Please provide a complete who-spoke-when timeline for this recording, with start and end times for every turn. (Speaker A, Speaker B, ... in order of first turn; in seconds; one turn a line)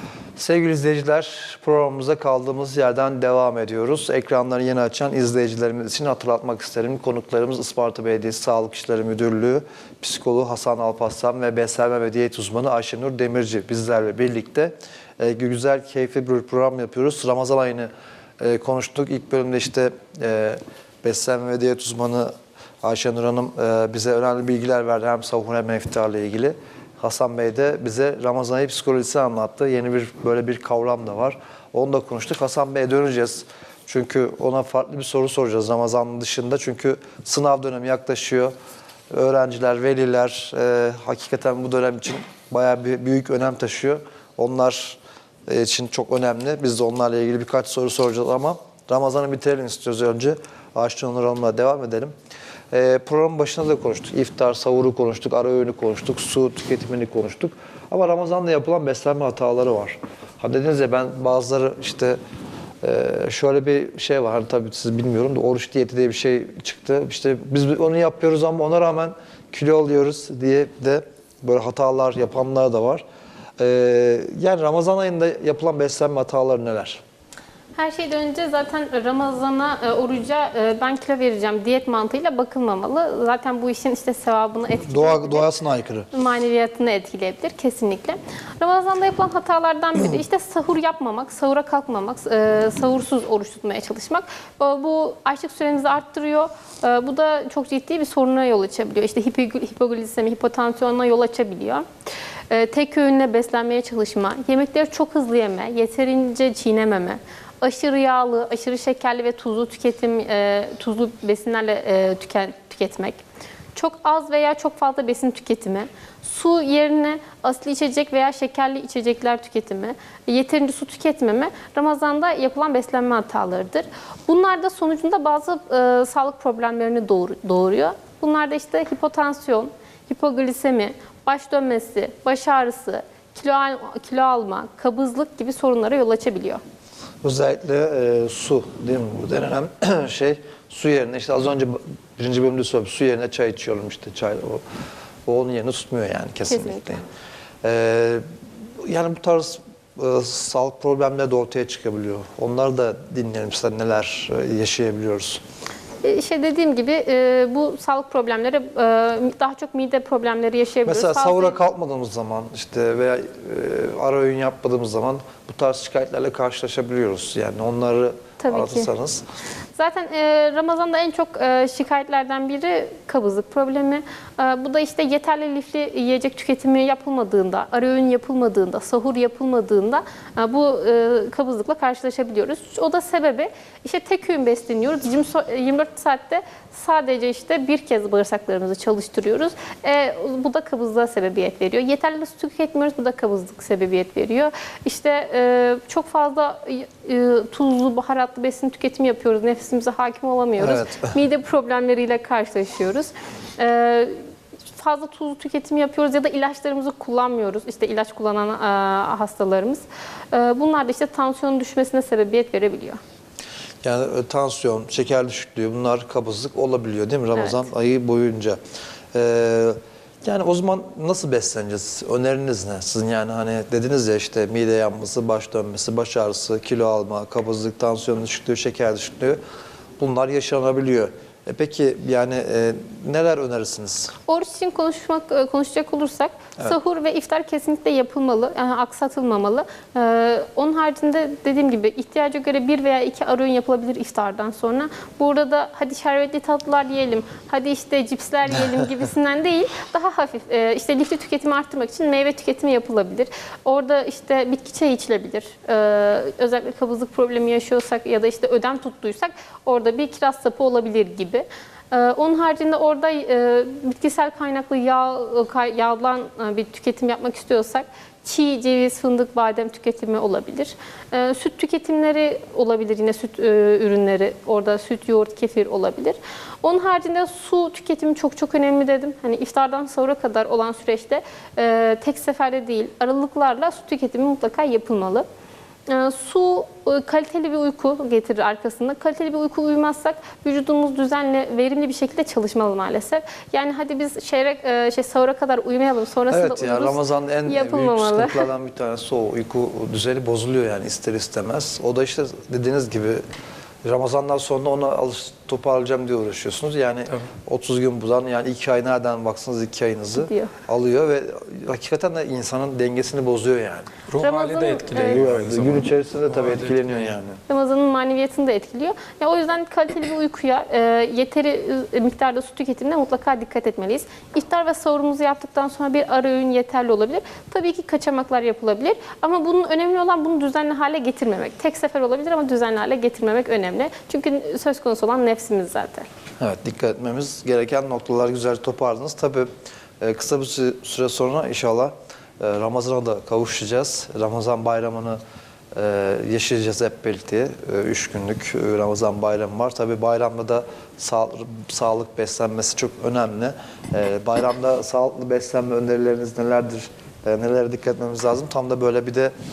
Speaker A: 0.4-17.9
Speaker A: 18.4-38.5
Speaker A: 39.1-52.1
Speaker A: 52.7-62.2
Speaker A: 62.8-73.0
Speaker A: 73.6-77.0
Speaker B: 77.7-85.5
Speaker A: 84.8-86.1
Speaker B: 86.1-101.8
Speaker B: 102.5-113.2
Speaker B: 113.7-136.6
Speaker A: 137.2-144.6
Speaker A: 145.2-147.0
Speaker B: 146.5-146.8
Speaker A: 147.6-148.2
Speaker A: 148.8-155.4
Speaker B: 156.0-161.6
Speaker A: 160.8-169.2
Speaker B: 168.4-168.9
Speaker B: 169.8-213.0
Speaker A: 200.6-201.1
Speaker A: 213.8-218.6
Speaker A: 219.1-229.4
Speaker A: 230.0-234.1
Speaker B: 234.3-285.2
Speaker B: 285.9-298.5
Speaker A: 296.3-303.2
Speaker A: 303.8-313.9
Speaker B: 310.2-310.5
Speaker C: 314.1-317.1
Speaker B: 314.2-315.2
Speaker A: 314.9-317.4
Speaker B: 317.5-336.1
Speaker A: 336.4-345.2
Speaker A: 345.7-359.3